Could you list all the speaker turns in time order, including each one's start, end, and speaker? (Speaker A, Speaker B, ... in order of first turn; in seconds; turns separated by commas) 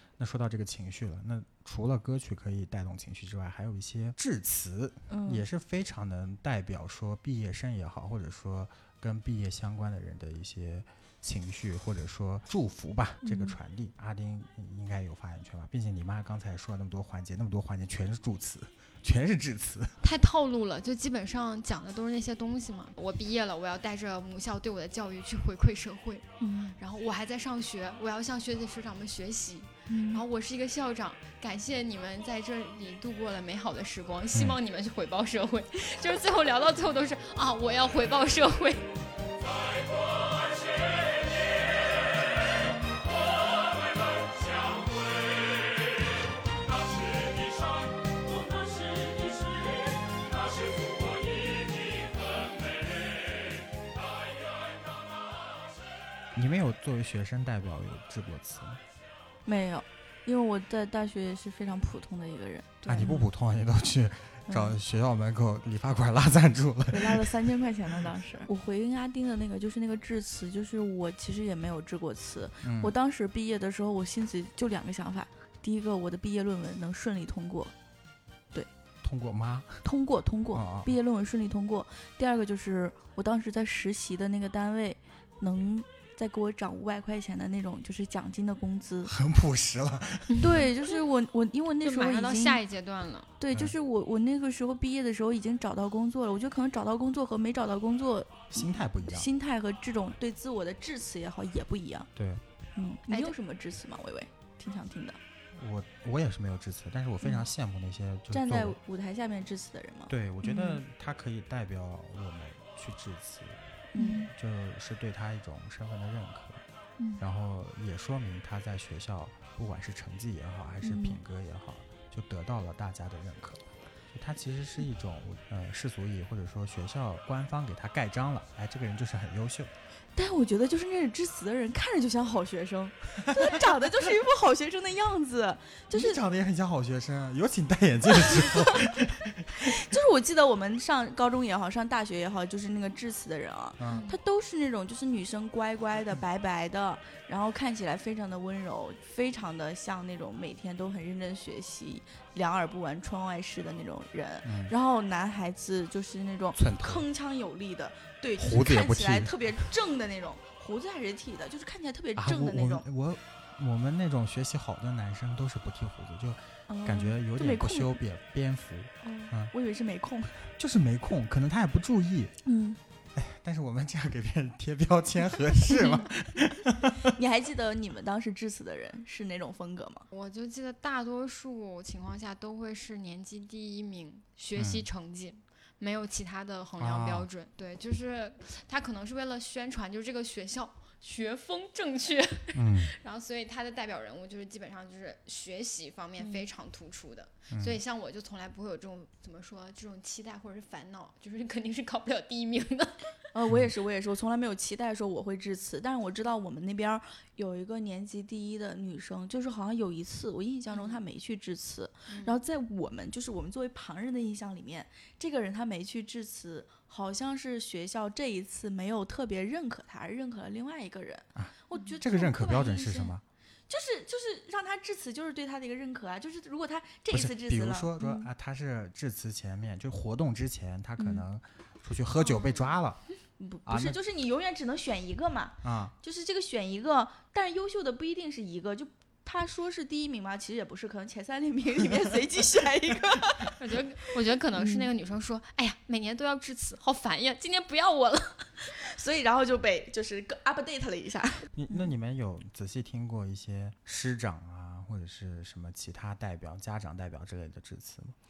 Speaker A: 0.2-19.9, Speaker B: 5.1-5.4, Speaker B: 13.2-13.6, Speaker C: 20.0-38.9, Speaker B: 26.4-26.8, Speaker B: 29.9-30.2, Speaker A: 56.3-58.8, Speaker B: 59.5-63.2, Speaker A: 62.9-67.4, Speaker C: 62.9-63.1, Speaker B: 64.5-64.8, Speaker B: 66.9-77.7, Speaker A: 72.6-72.9, Speaker A: 79.0-79.8, Speaker B: 79.8-89.1, Speaker A: 80.5-80.9, Speaker A: 89.0-90.6, Speaker C: 90.3-91.0, Speaker B: 90.4-92.6, Speaker C: 91.8-93.3, Speaker B: 93.4-102.1, Speaker A: 98.5-99.3, Speaker A: 102.2-102.4, Speaker B: 102.8-105.2, Speaker C: 103.1-103.3, Speaker A: 105.5-108.8, Speaker B: 107.2-107.5, Speaker B: 108.3-110.8, Speaker A: 110.1-113.6, Speaker B: 113.9-114.3, Speaker C: 114.0-114.2, Speaker A: 114.2-116.6, Speaker A: 117.2-129.7, Speaker B: 120.8-121.2, Speaker B: 130.1-136.2, Speaker A: 133.2-133.6, Speaker A: 135.9-139.9, Speaker B: 138.1-139.0, Speaker B: 139.5-162.9, Speaker A: 143.8-144.1, Speaker C: 143.8-144.2, Speaker A: 154.4-154.7, Speaker A: 156.6-157.1, Speaker A: 158.4-159.7, Speaker A: 162.2-169.5, Speaker B: 166.7-167.9, Speaker B: 169.0-170.5, Speaker A: 170.6-172.3, Speaker B: 172.4-172.8, Speaker A: 173.2-177.1, Speaker B: 177.0-180.1, Speaker C: 180.1-203.2, Speaker A: 184.6-184.8, Speaker A: 186.8-187.3, Speaker A: 192.5-192.9, Speaker B: 196.2-196.5, Speaker A: 197.5-197.8, Speaker B: 203.3-223.2, Speaker C: 210.7-211.0, Speaker C: 212.1-212.4, Speaker A: 221.3-223.2, Speaker B: 223.7-228.3, Speaker A: 227.1-233.0, Speaker B: 231.0-231.2, Speaker B: 233.4-244.9, Speaker A: 233.7-234.0, Speaker A: 235.6-235.9, Speaker C: 243.6-248.8, Speaker B: 248.7-251.9, Speaker A: 251.6-258.1